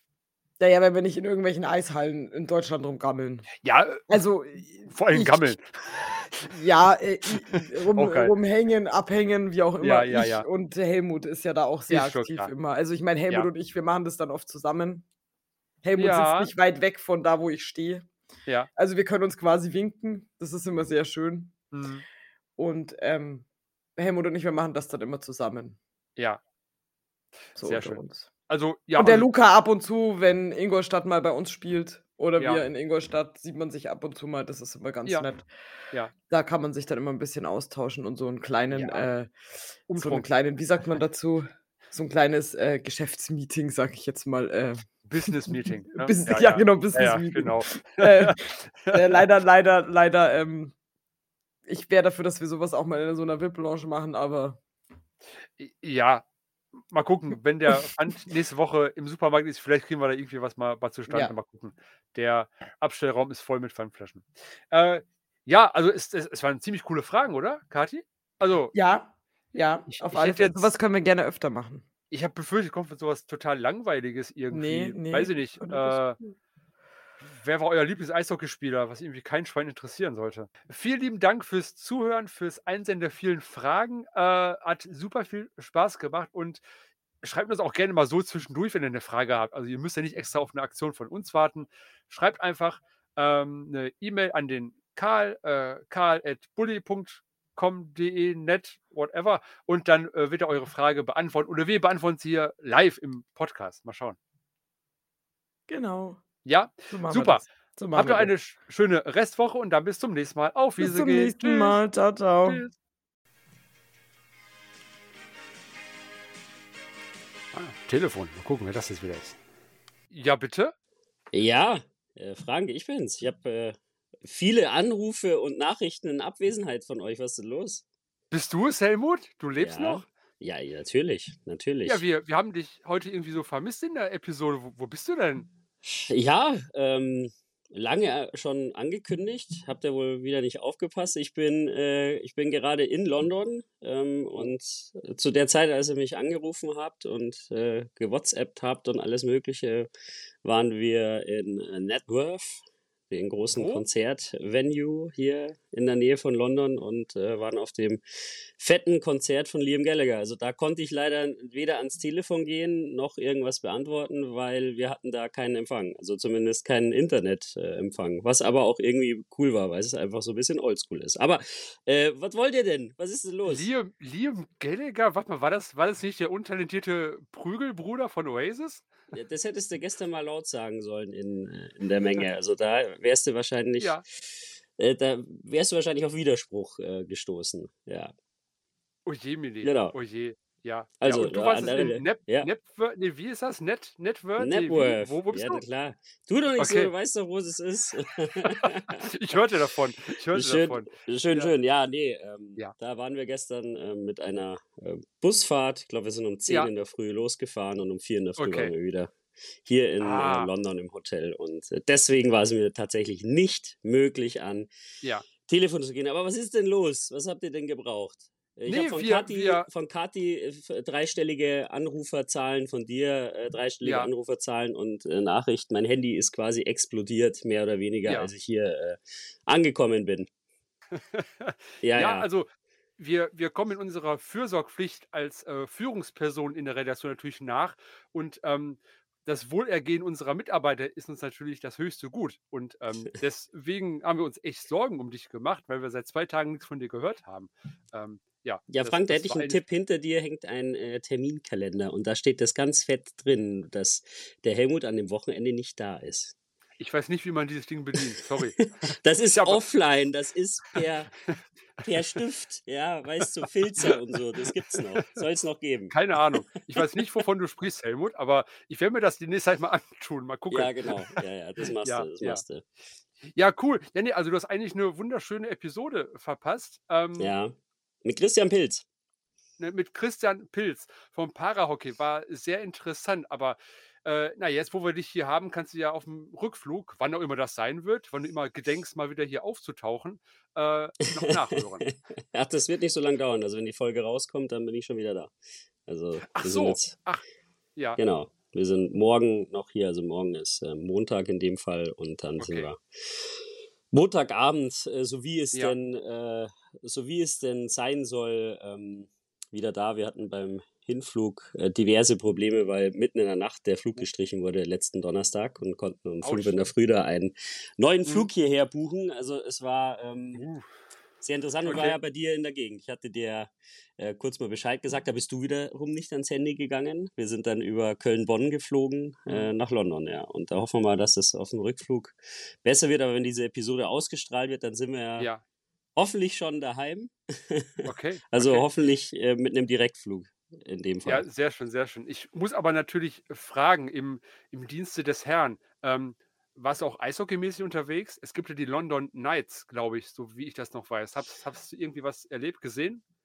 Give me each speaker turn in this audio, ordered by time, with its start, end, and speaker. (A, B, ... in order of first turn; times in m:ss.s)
0:00.6-0:03.5 A
0:03.6-0:04.1 B
0:04.1-0:05.5 A
0:04.9-0:06.5 B
0:06.5-0:15.0 A
0:07.5-0:08.3 B
0:09.8-0:10.4 B
0:11.9-0:12.5 B
0:15.8-0:18.1 A
0:16.0-0:16.5 B
0:18.8-0:21.6 A
0:21.7-0:22.0 B
0:22.6-0:23.4 A
0:24.0-0:25.8 A
0:27.6-0:28.3 A
0:27.6-0:29.3 B
0:29.0-0:35.5 A
0:36.3-0:39.3 A
0:38.7-0:39.1 B
0:39.9-0:40.3 B
0:39.9-0:48.4 A
0:45.1-0:49.2 B
0:48.9-0:50.8 A
0:51.7-0:54.6 A
0:55.6-0:56.2 B
0:56.9-1:08.7 B
1:01.1-1:01.4 A
1:08.7-1:11.8 A
1:09.9-1:10.7 B
1:12.1-1:16.2 B
1:14.5-1:16.3 A
1:17.2-1:26.6 B
1:27.2-1:44.2 B
1:45.7-1:46.2 A
1:46.4-1:51.8 B
1:46.9-1:48.3 A
1:50.8-1:52.6 A
1:52.4-1:52.7 B
1:57.5-1:59.4 B
2:00.1-2:00.7 B
2:01.3-2:07.8 C
2:08.3-2:10.0 B
2:09.6-2:12.0 C
2:11.8-2:15.5 B
2:16.1-2:29.9 C
2:30.4-2:38.0 C
2:33.5-2:33.8 B
2:38.6-2:53.7 C
2:53.4-2:58.9 B
2:59.1-3:08.1 C
3:09.1-3:15.6 B
3:09.6-3:10.0 C
3:11.0-3:12.5 C
3:14.4-3:19.5 C
3:16.6-3:16.9 B
3:18.9-3:21.5 B
3:20.1-3:29.1 C
3:28.4-3:28.7 B
3:29.6-3:34.7 C
3:30.0-3:30.5 B
3:35.3-3:50.3 C
3:38.7-3:39.7 B
3:43.8-3:44.1 B
3:48.1-3:48.3 B
3:51.0-3:52.5 B
3:51.8-3:52.3 C
3:53.0-4:09.6 B
4:08.7-4:16.3 C
4:16.8-4:18.6 B
4:18.0-4:21.1 C
4:19.3-4:19.6 B
4:21.8-4:26.8 C
4:25.9-4:32.4 B
4:30.5-4:32.6 C
4:33.3-4:37.3 B
4:37.2-4:38.8 C
4:39.6-4:51.9 B
4:51.0-4:55.3 C
4:55.9-4:57.0 C
4:56.3-4:57.2 B
4:58.0-5:20.4 C
5:02.4-5:02.7 B
5:16.2-5:16.7 B
5:20.3-5:20.7 B
5:21.2-5:35.3 C
5:21.7-5:22.0 B
5:36.0-5:41.2 C
5:37.9-5:38.7 B
5:41.0-5:53.0 B